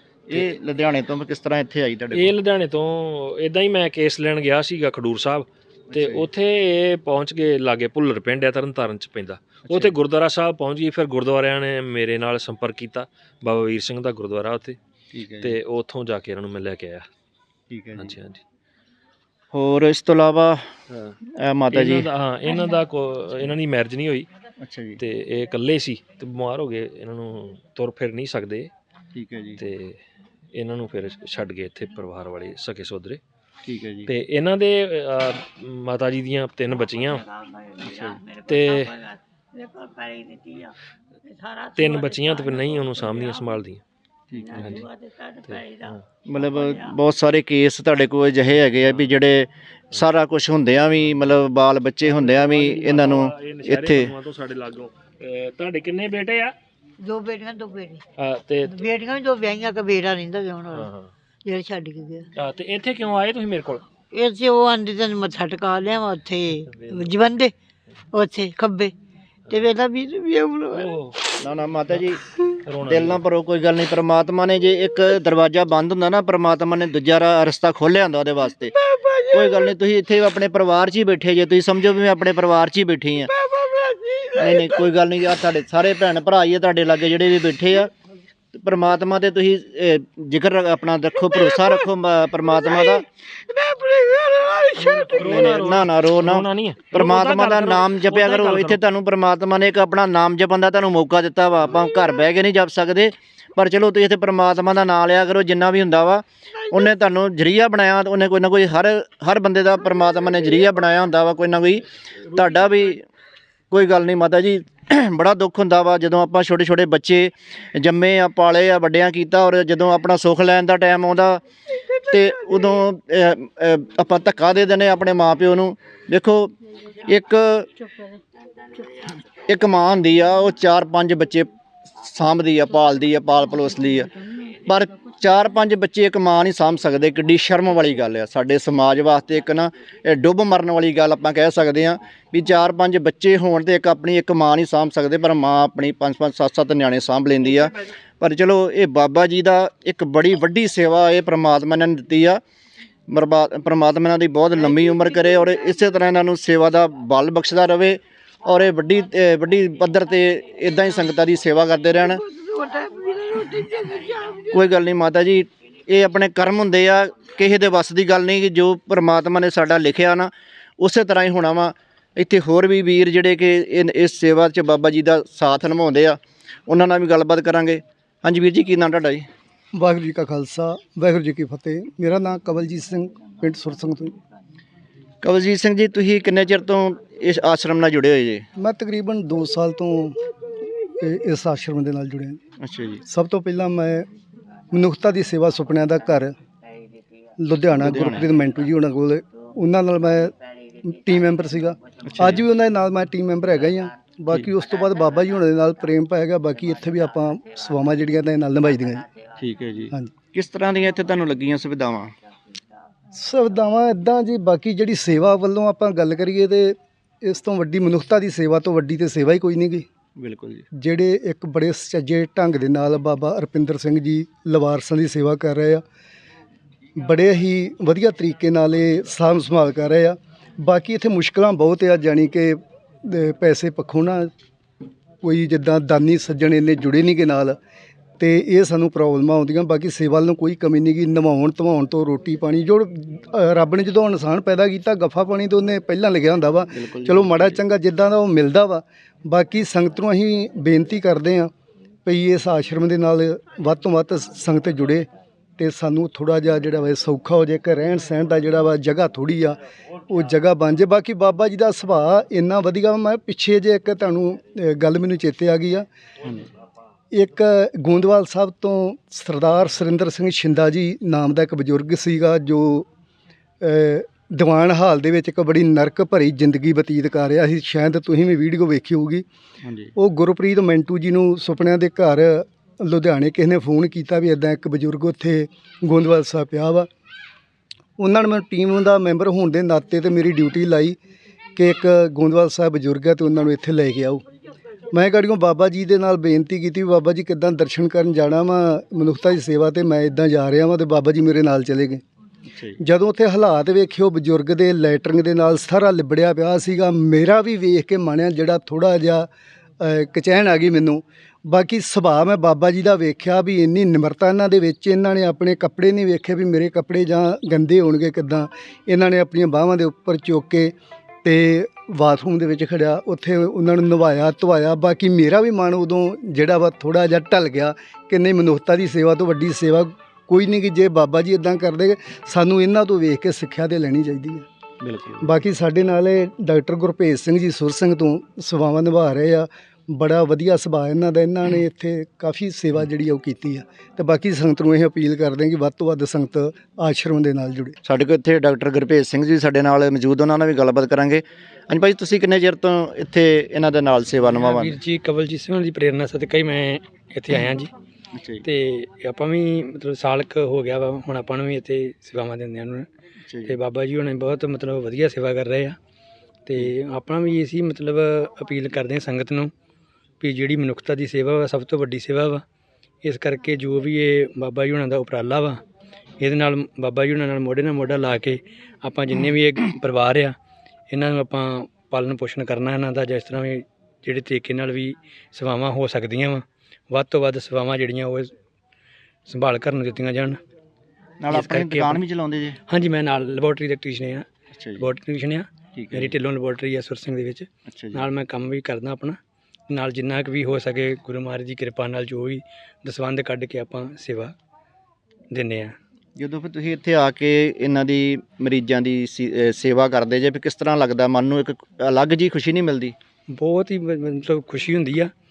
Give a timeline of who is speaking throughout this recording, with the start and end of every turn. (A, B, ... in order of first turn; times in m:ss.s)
0:00.3-0:02.3 A
0:02.1-0:14.8 B
0:05.9-0:06.3 A
0:09.7-0:09.9 A
0:15.1-0:15.6 A
0:15.4-0:17.1 B
0:17.7-0:18.2 A
0:18.0-0:18.4 B
0:19.5-0:20.6 A
0:20.9-0:21.2 B
0:21.4-0:22.1 A
0:21.7-0:24.3 B
0:24.6-0:25.0 A
0:25.0-0:28.7 B
0:29.1-0:29.6 A
0:29.6-0:30.0 B
0:30.5-0:33.2 B
0:33.6-0:34.1 A
0:34.1-0:37.2 B
0:37.0-0:40.7 C
0:37.8-0:38.2 A
0:38.5-0:38.9 B
0:41.2-0:43.5 C
0:41.8-0:43.8 B
0:44.3-0:44.6 A
0:44.4-0:46.9 C
0:44.6-0:44.9 B
0:45.5-0:46.0 B
0:46.3-0:54.1 A
0:48.8-0:49.1 B
0:52.0-0:56.5 B
0:57.0-0:58.0 C
0:58.2-0:58.9 B
0:58.7-1:00.9 C
1:00.7-1:01.1 B
1:01.4-1:02.3 C
1:02.4-1:03.8 B
1:04.1-1:07.5 C
1:06.7-1:07.1 B
1:08.1-1:08.9 C
1:09.5-1:10.9 C
1:10.7-1:11.2 B
1:11.4-1:12.2 A
1:12.7-1:13.2 B
1:12.9-1:18.7 A
1:18.9-1:19.7 C
1:19.3-1:23.3 A
1:23.5-1:24.8 C
1:24.4-1:27.9 A
1:28.6-1:33.0 A
1:33.5-1:35.6 C
1:34.8-1:38.8 B
1:35.2-1:53.1 A
1:53.7-2:01.4 A
2:02.1-2:06.5 A
2:07.1-2:07.7 A
2:09.5-2:11.5 A
2:12.0-2:14.1 A
2:14.6-2:32.4 A
2:33.1-2:42.2 A
2:42.3-2:44.4 C
2:44.5-2:59.3 A
2:59.8-3:04.2 D
3:05.2-3:08.4 A
3:08.6-3:10.2 D
3:11.0-3:12.4 D
3:12.6-3:13.0 A
3:13.1-3:14.1 D
3:14.7-3:16.3 D
3:17.4-3:29.1 D
3:17.8-3:18.3 A
3:22.1-3:22.4 A
3:29.4-3:32.1 A
3:33.2-3:39.9 D
3:40.2-3:40.7 A
3:40.8-3:45.8 D
3:47.0-3:54.3 D
3:55.2-3:57.6 D
3:58.2-4:11.5 D
4:06.8-4:07.6 A
4:12.0-4:15.1 D
4:15.6-4:25.9 D
4:27.1-4:32.9 D
4:33.6-4:39.3 D
4:39.6-4:39.9 A
4:40.0-4:46.9 D
4:48.0-4:51.0 D
4:51.6-4:54.2 D
4:54.9-5:02.0 D
5:02.5-5:02.8 A
5:02.8-5:09.3 D
5:09.8-5:20.7 D
5:21.2-5:34.4 D
5:34.8-5:35.3 A
5:35.2-5:47.8 D
5:47.8-5:54.8 A
5:54.2-5:57.7 E
5:58.1-5:58.4 A
5:58.4-6:02.9 E
6:03.3-6:03.6 A
6:03.4-6:05.8 E
6:06.5-6:09.5 E
6:10.2-6:12.4 E
6:13.0-6:15.6 E
6:16.2-6:20.4 E
6:20.9-6:28.3 E
6:29.3-6:30.4 E
6:31.2-6:32.6 A
6:31.3-6:32.0 E
6:32.7-6:39.2 E
6:34.5-6:34.9 A
6:35.7-6:36.2 A
6:37.7-6:38.1 A
6:39.7-6:44.3 E
6:45.3-6:45.7 E
6:46.2-6:53.0 A
6:53.3-6:55.1 E